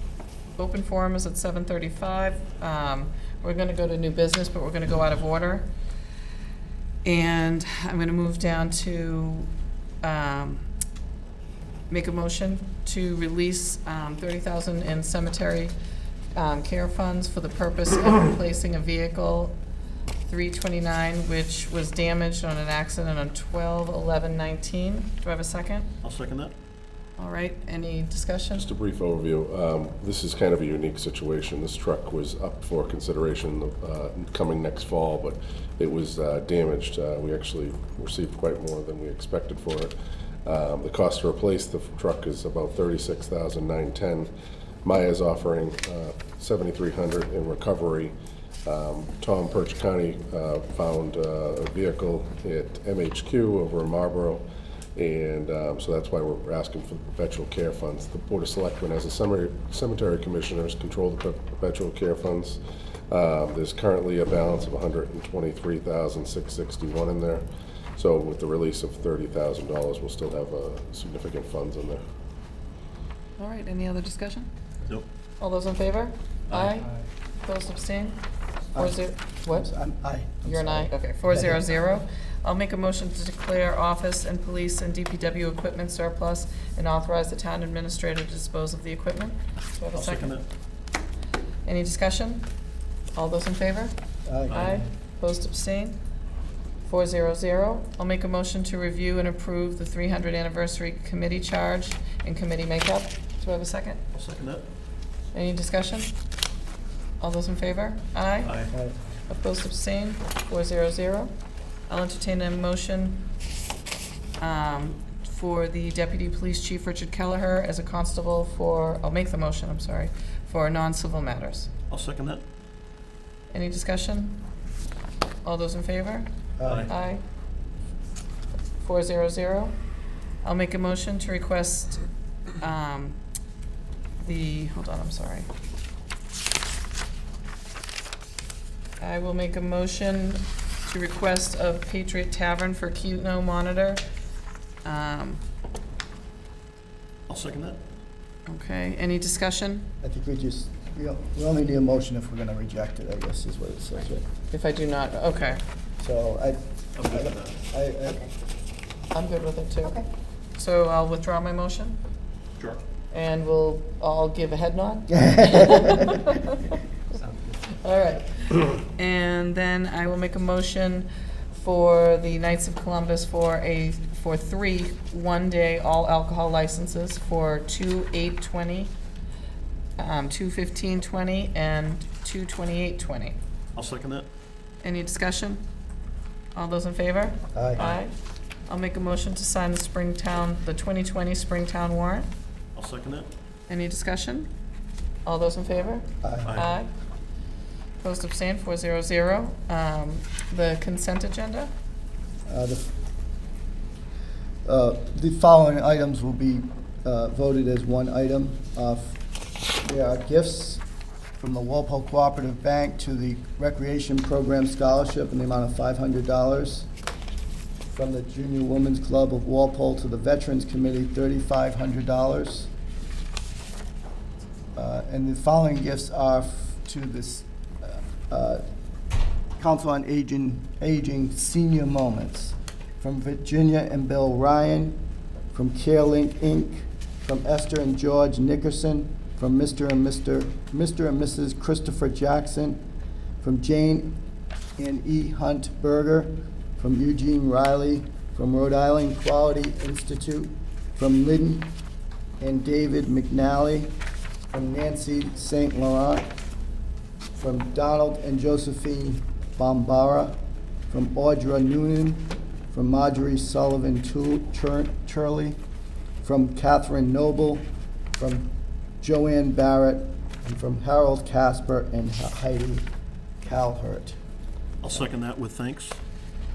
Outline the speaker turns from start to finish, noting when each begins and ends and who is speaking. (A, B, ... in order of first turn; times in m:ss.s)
0:00.6-0:05.6 A
0:07.0-0:09.5 A
0:10.0-0:10.6 A
0:11.9-0:15.7 A
0:16.4-0:19.5 A
0:20.2-0:25.9 A
0:26.0-0:26.5 B
0:27.2-0:28.7 A
0:28.6-0:39.9 C
0:40.4-0:44.3 C
0:44.8-0:48.1 C
0:48.6-0:54.4 C
0:55.0-1:02.6 C
1:03.1-1:07.4 C
1:08.0-1:12.0 C
1:13.4-1:14.5 A
1:15.4-1:16.9 A
1:16.5-1:16.7 B
1:17.4-1:18.2 A
1:18.7-1:19.7 A
1:18.7-1:21.6 D
1:20.4-1:30.3 A
1:29.9-1:30.4 B
1:31.6-1:32.5 A
1:33.1-1:33.9 A
1:34.2-1:34.6 D
1:34.5-1:34.8 B
1:34.5-1:36.0 A
1:36.8-1:44.0 A
1:44.1-1:44.6 B
1:45.3-1:46.1 A
1:47.2-1:48.5 A
1:48.4-1:48.7 B
1:49.3-1:51.3 A
1:51.9-1:53.2 A
1:54.4-2:01.7 A
2:01.9-2:02.4 B
2:03.5-2:04.4 A
2:05.4-2:06.3 A
2:06.6-2:06.9 D
2:06.6-2:06.9 B
2:06.8-2:07.2 A
2:08.8-2:09.7 A
2:10.4-2:12.0 A
2:12.6-2:13.2 A
2:14.2-2:15.5 A
2:19.0-2:24.0 A
2:24.8-2:25.4 A
2:27.3-2:27.8 B
2:28.5-2:29.8 A
2:30.0-2:34.2 D
2:34.5-2:35.6 A
2:36.0-2:38.3 D
2:37.0-2:37.6 B
2:39.1-2:40.0 A
2:40.6-2:42.0 A
2:43.1-2:46.8 A
2:45.1-2:46.2 D
2:47.7-2:58.9 A
3:00.0-3:03.4 A
3:03.7-3:04.3 B
3:04.8-3:05.6 A
3:06.5-3:08.1 A
3:07.5-3:07.8 D
3:08.7-3:12.3 A
3:12.7-3:13.3 B
3:13.7-3:14.5 A
3:15.2-3:16.9 A
3:16.2-3:16.6 D
3:16.4-3:16.7 B
3:18.0-3:21.7 A
3:22.4-3:22.9 D
3:24.6-3:29.2 D
3:29.8-3:30.8 D
3:31.4-3:36.9 D
3:37.8-3:42.7 D
3:44.8-3:48.6 D
3:49.6-3:55.0 D
3:55.5-4:02.8 D
4:03.4-4:04.2 D
4:04.8-4:11.7 D
4:12.4-4:13.9 D
4:14.5-4:16.3 D
4:17.4-4:20.3 D
4:20.9-4:25.6 D
4:26.2-4:32.9 D
4:33.4-4:34.2 D
4:34.8-4:36.0 B